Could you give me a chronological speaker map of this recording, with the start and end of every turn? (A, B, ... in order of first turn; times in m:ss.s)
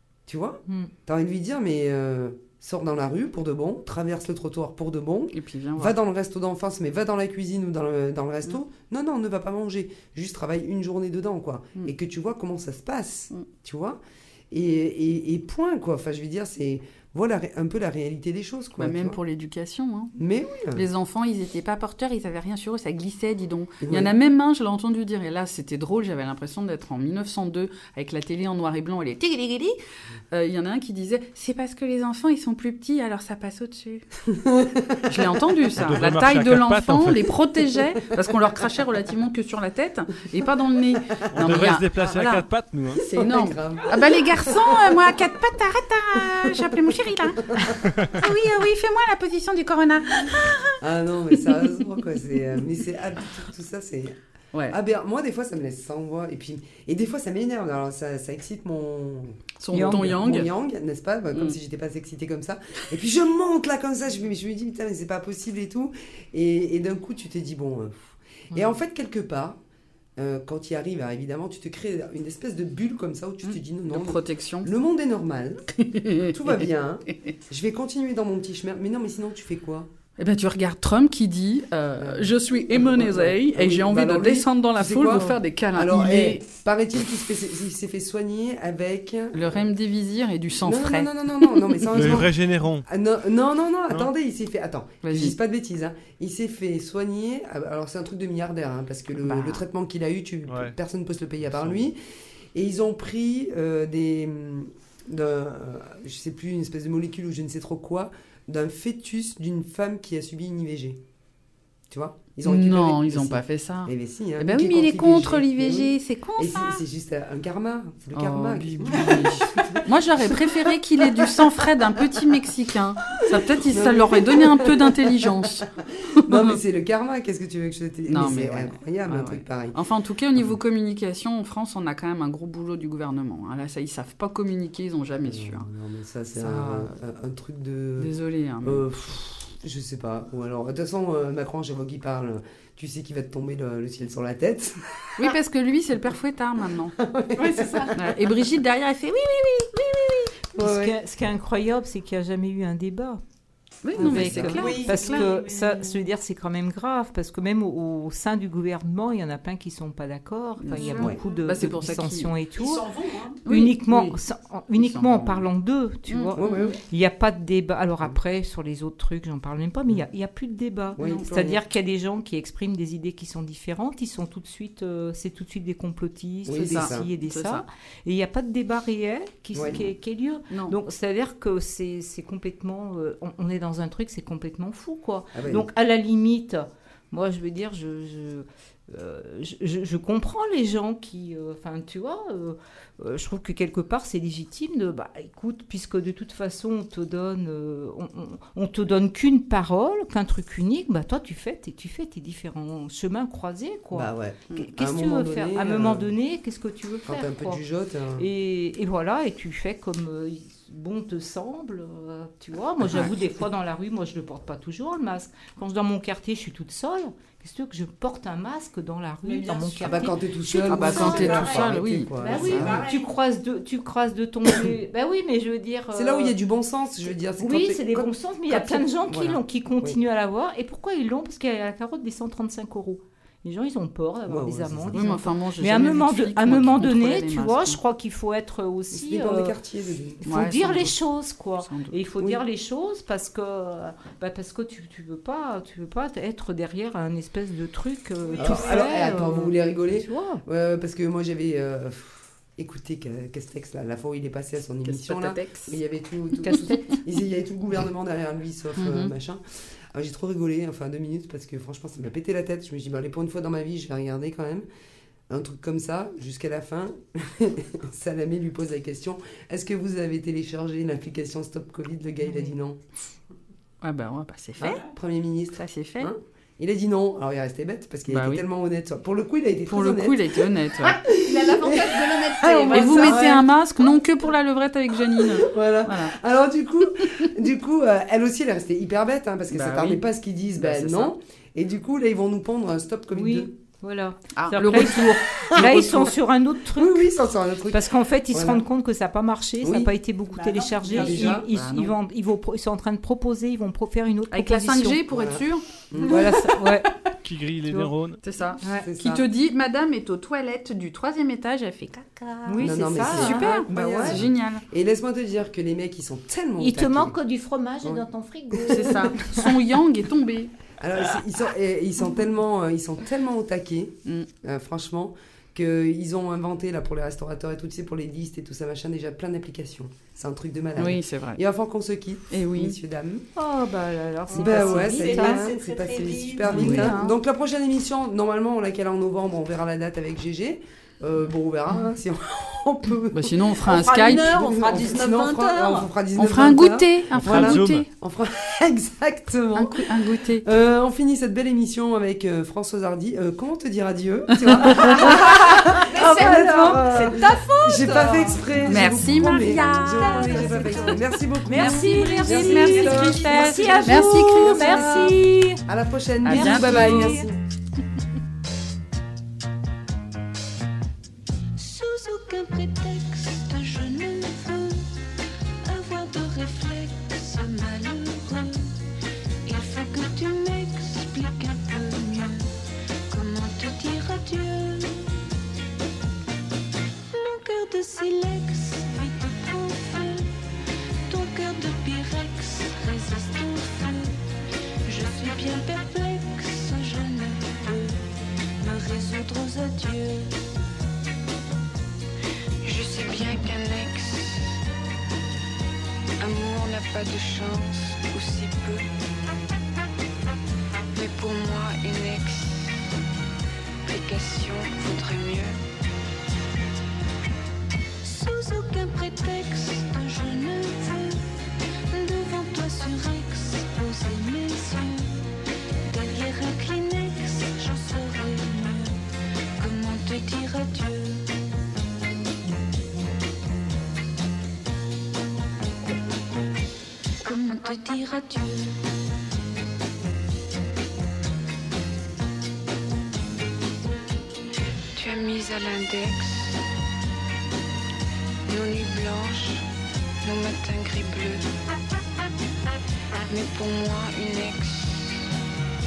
0:00.3-0:14.0 A
0:00.7-0:00.9 B
0:05.3-0:06.0 C
0:14.5-0:19.2 A
0:18.8-0:20.1 C
0:20.2-0:20.8 A
0:20.7-0:29.8 C
0:23.8-0:24.1 A
0:30.3-0:34.0 C
0:34.3-0:35.3 A
0:35.1-0:50.8 C
0:35.8-0:37.3 D
0:41.3-0:43.0 D
0:43.1-0:45.2 A
0:46.2-0:48.1 A
0:50.8-0:54.2 A
0:51.3-0:52.6 C
0:54.7-1:09.6 A
0:59.6-1:00.5 C
0:59.7-1:00.1 B
1:01.3-1:01.6 C
1:10.2-1:19.9 A
1:13.4-1:14.7 C
1:15.8-1:16.5 C
1:20.2-1:26.4 C
1:22.0-1:29.6 A
1:29.3-1:32.2 C
1:30.6-1:42.0 A
1:31.9-1:32.8 D
1:35.0-1:35.4 C
1:39.2-1:39.6 C
1:40.5-1:40.7 D
1:41.4-1:41.8 D
1:42.5-1:51.0 A
1:51.9-2:00.4 A
1:52.4-1:56.8 C
1:58.1-2:06.6 C
1:58.8-1:59.7 E
2:03.7-2:09.8 A
2:08.1-2:15.7 C
2:15.2-2:25.3 A
2:16.3-2:16.9 C
2:18.0-2:18.8 C
2:25.2-2:27.0 C
2:27.0-2:27.9 A
2:27.4-2:28.0 E
2:27.9-2:30.3 C
2:30.5-2:30.9 A
2:30.6-2:33.2 B
2:33.8-2:35.3 C
2:33.9-2:34.7 A
2:34.0-2:42.8 B
2:34.4-2:36.0 E
2:40.6-2:42.3 C
2:40.8-2:41.1 E
2:40.9-2:41.2 A
2:42.6-2:43.4 E
2:43.4-2:44.2 C
2:43.4-3:27.6 B
2:44.7-2:45.4 C
2:46.1-2:46.8 C
2:46.4-2:46.8 A
2:51.0-2:51.6 A
2:51.0-2:51.3 C
2:56.4-2:57.1 A
2:56.7-2:57.6 C
2:59.6-2:59.9 A
3:00.5-3:00.8 C
3:05.3-3:05.7 A
3:23.9-3:26.1 A
3:27.1-3:28.3 A
3:28.2-3:41.6 B
3:39.2-3:40.1 E
3:39.8-3:42.8 A
3:40.7-3:42.8 C
3:41.1-3:41.3 E
3:42.2-3:43.0 E
3:42.2-3:46.4 B
3:45.9-3:50.0 A
3:47.4-3:59.6 B
3:54.3-3:55.0 A
3:54.9-3:57.8 C
3:58.9-4:00.2 A
4:00.2-4:10.4 B
4:00.2-4:01.0 C
4:01.6-4:01.9 C
4:08.2-4:08.8 E
4:08.4-4:24.6 A
4:14.8-4:15.8 C
4:16.4-4:16.7 B
4:18.8-4:19.1 C
4:25.3-4:32.8 A
4:32.2-4:32.6 B
4:33.8-4:34.8 C
4:34.6-4:43.3 A
4:35.5-4:36.1 C
4:38.1-4:38.4 C
4:39.7-4:41.0 C
4:41.1-4:43.2 E
4:42.7-4:46.2 C
4:43.1-4:43.4 B
4:45.2-4:53.5 A
4:49.5-4:50.0 C
4:50.6-4:51.1 C
4:53.1-4:57.1 B
4:54.4-4:55.9 C
4:55.6-4:56.1 A
4:56.7-4:58.6 A
4:57.7-5:05.0 B
4:59.6-4:59.9 A
5:00.3-5:01.4 E
5:00.9-5:01.5 A
5:01.2-5:01.9 C
5:04.3-5:05.6 C
5:05.1-5:06.4 A
5:06.1-5:06.9 B
5:07.2-5:08.2 D
5:08.2-5:14.6 C
5:08.6-5:08.9 B
5:08.8-5:09.2 A
5:12.5-5:14.2 B
5:12.6-5:17.2 A
5:16.6-5:19.3 B
5:17.8-5:19.5 A
5:18.6-5:20.5 C
5:20.8-5:33.2 A
5:30.8-5:31.4 C
5:32.3-5:32.8 C
5:33.4-5:35.5 B
5:34.3-5:36.9 E
5:34.3-6:07.4 A
5:36.4-5:37.2 B
5:36.5-5:36.9 C
5:43.1-5:44.4 C
5:43.7-5:45.9 E
5:46.2-5:47.9 C
5:47.1-5:47.9 D
5:49.6-5:50.5 C
5:54.4-5:55.0 C
5:54.8-6:04.0 E
5:55.0-5:57.0 B
5:58.7-6:00.4 C
6:01.4-6:05.6 B
6:02.1-6:04.9 C
6:06.2-6:07.2 C
6:06.3-6:07.2 B
6:11.6-6:14.8 F
6:15.6-6:18.6 F
6:19.4-6:22.5 F
6:23.1-6:25.0 F
6:27.1-6:30.3 F
6:31.1-6:34.2 F
6:34.8-6:38.0 F
6:38.6-6:40.3 F
6:42.6-6:44.6 F
6:46.2-6:48.8 F
6:50.9-6:52.7 F
6:53.8-6:55.6 F
6:58.0-7:01.2 F
7:01.9-7:05.2 F
7:05.8-7:09.0 F
7:09.6-7:11.3 F
7:17.2-7:18.8 F
7:24.9-7:26.5 F
7:28.5-7:29.6 F
7:30.2-7:31.4 F
7:33.3-7:35.2 F